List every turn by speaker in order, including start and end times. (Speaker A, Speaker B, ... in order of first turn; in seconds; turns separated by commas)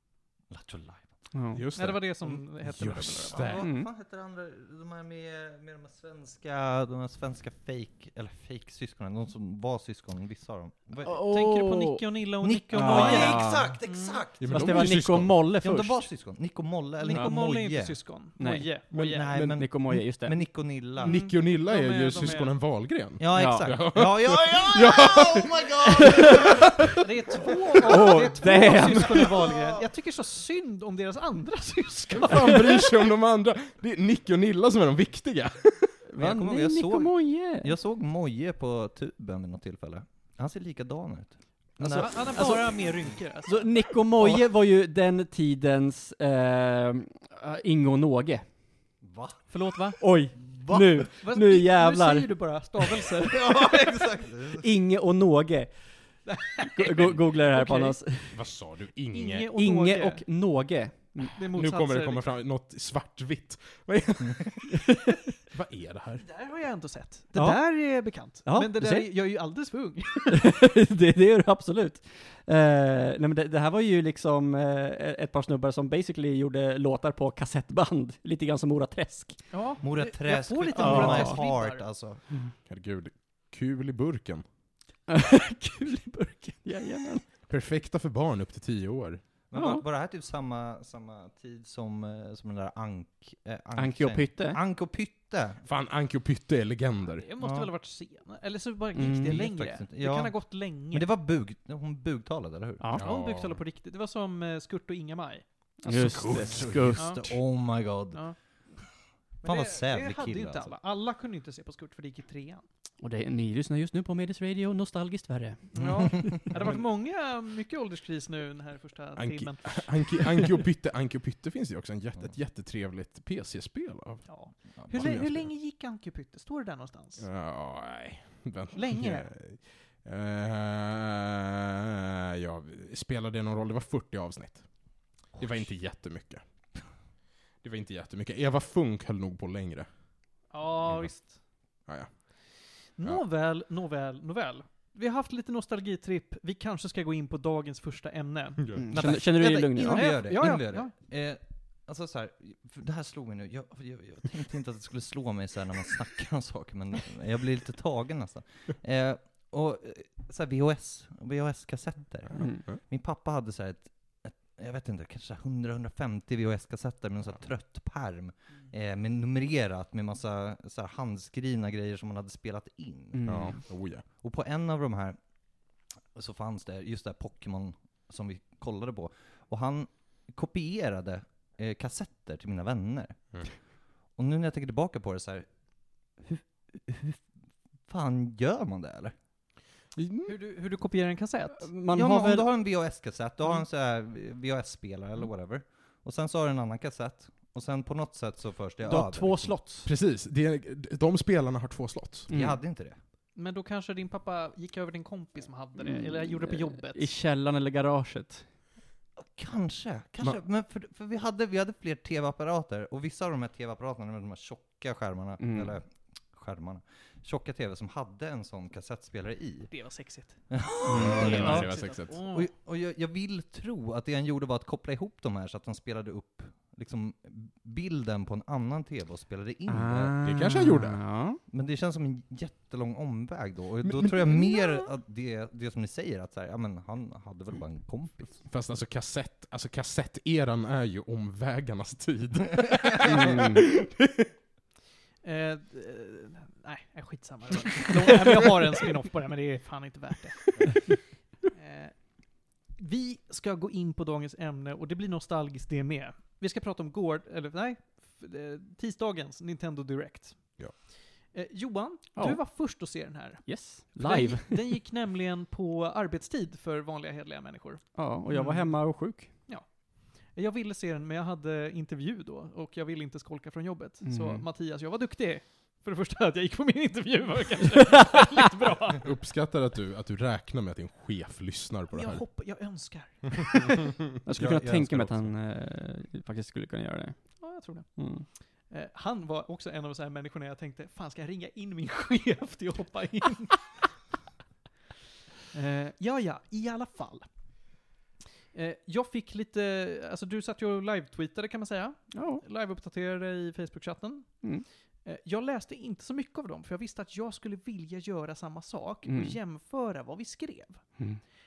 Speaker A: 0.5-1.2, Speaker B: 1.3-1.6, Speaker C: 1.5-3.7, Speaker D: 1.7-3.6, Speaker A: 3.3-11.3, Speaker B: 3.6-3.9, Speaker B: 11.0-12.1, Speaker D: 11.3-14.2, Speaker A: 12.4-14.8, Speaker B: 12.7-13.8, Speaker C: 14.4-15.4, Speaker B: 14.5-16.0, Speaker A: 15.6-18.0, Speaker D: 17.0-19.3, Speaker B: 18.4-18.7, Speaker A: 18.9-21.2, Speaker C: 18.9-20.0, Speaker B: 19.3-20.4, Speaker D: 21.0-22.6, Speaker C: 21.0-26.7, Speaker A: 23.2-26.7, Speaker B: 23.3-23.9, Speaker B: 26.1-26.6, Speaker D: 27.0-33.0, Speaker B: 27.9-29.4, Speaker C: 32.2-36.0, Speaker B: 36.1-37.7, Speaker A: 36.2-42.5, Speaker B: 41.8-48.5, Speaker D: 42.0-43.8, Speaker A: 49.0-49.5, Speaker D: 49.5-50.0, Speaker B: 50.0-52.5, Speaker A: 50.4-51.0, Speaker D: 51.2-53.6, Speaker A: 53.2-54.7, Speaker B: 54.6-58.4, Speaker D: 56.3-58.0, Speaker C: 58.3-59.5, Speaker D: 59.1-60.2, Speaker B: 59.5-61.4, Speaker D: 61.3-62.2, Speaker C: 61.5-64.8, Speaker C: 65.5-66.2, Speaker D: 66.2-70.4, Speaker B: 67.3-69.1, Speaker B: 70.3-79.5, Speaker D: 79.5-81.9, Speaker A: 79.8-82.2, Speaker B: 80.8-81.4, Speaker C: 82.7-84.4, Speaker B: 85.1-87.2, Speaker C: 87.5-89.2, Speaker A: 89.5-95.7, Speaker B: 89.5-89.8, Speaker B: 93.8-94.6, Speaker C: 95.6-97.3, Speaker D: 97.1-101.1, Speaker A: 97.4-97.7, Speaker B: 98.9-99.4, Speaker A: 99.2-103.0, Speaker B: 102.8-103.1, Speaker D: 103.0-105.5, Speaker C: 103.0-103.5, Speaker B: 105.8-107.1, Speaker C: 105.9-107.0, Speaker A: 105.9-108.2, Speaker D: 107.0-107.3, Speaker D: 108.1-108.4, Speaker A: 109.4-110.7, Speaker D: 109.4-112.6, Speaker B: 113.0-116.3, Speaker D: 115.7-120.5, Speaker C: 116.5-116.8, Speaker C: 119.2-124.3, Speaker D: 124.3-127.3, Speaker C: 124.9-125.5, Speaker C: 127.2-136.4, Speaker D: 128.8-129.3, Speaker C: 137.6-139.9, Speaker D: 140.5-141.4, Speaker C: 141.9-142.5, Speaker D: 142.9-148.9, Speaker C: 148.6-149.1, Speaker B: 148.8-150.2, Speaker A: 148.9-175.2, Speaker D: 149.9-150.9, Speaker B: 162.4-162.6, Speaker B: 173.1-173.6, Speaker C: 173.3-174.0, Speaker A: 176.1-183.2, Speaker A: 184.2-185.5, Speaker A: 186.1-187.2, Speaker A: 187.9-189.2, Speaker C: 190.0-190.4, Speaker D: 190.3-191.7, Speaker B: 191.6-192.5, Speaker A: 191.9-199.6, Speaker B: 198.8-199.9, Speaker C: 199.9-202.3, Speaker B: 202.3-202.6, Speaker A: 202.3-203.0, Speaker D: 203.4-207.1, Speaker B: 205.8-208.5, Speaker A: 209.2-219.7, Speaker B: 215.4-215.8, Speaker D: 219.7-220.5, Speaker A: 220.5-230.2, Speaker B: 220.9-221.7, Speaker C: 220.9-222.1, Speaker D: 221.1-222.5, Speaker B: 229.7-231.4, Speaker C: 230.2-231.0, Speaker A: 231.5-238.4, Speaker C: 233.8-234.8, Speaker C: 238.4-244.3, Speaker B: 243.1-243.6, Speaker D: 245.2-250.8, Speaker D: 251.5-260.6, Speaker D: 261.3-279.1, Speaker B: 263.4-264.7, Speaker B: 267.9-269.3, Speaker B: 274.0-274.4, Speaker C: 279.0-282.2, Speaker D: 281.9-283.9, Speaker B: 284.2-287.4, Speaker A: 284.3-285.3, Speaker D: 287.4-287.9, Speaker B: 288.0-288.3, Speaker D: 288.7-293.9, Speaker D: 295.5-297.3, Speaker D: 298.5-304.4, Speaker B: 302.1-302.4, Speaker D: 305.1-310.9, Speaker B: 309.1-309.4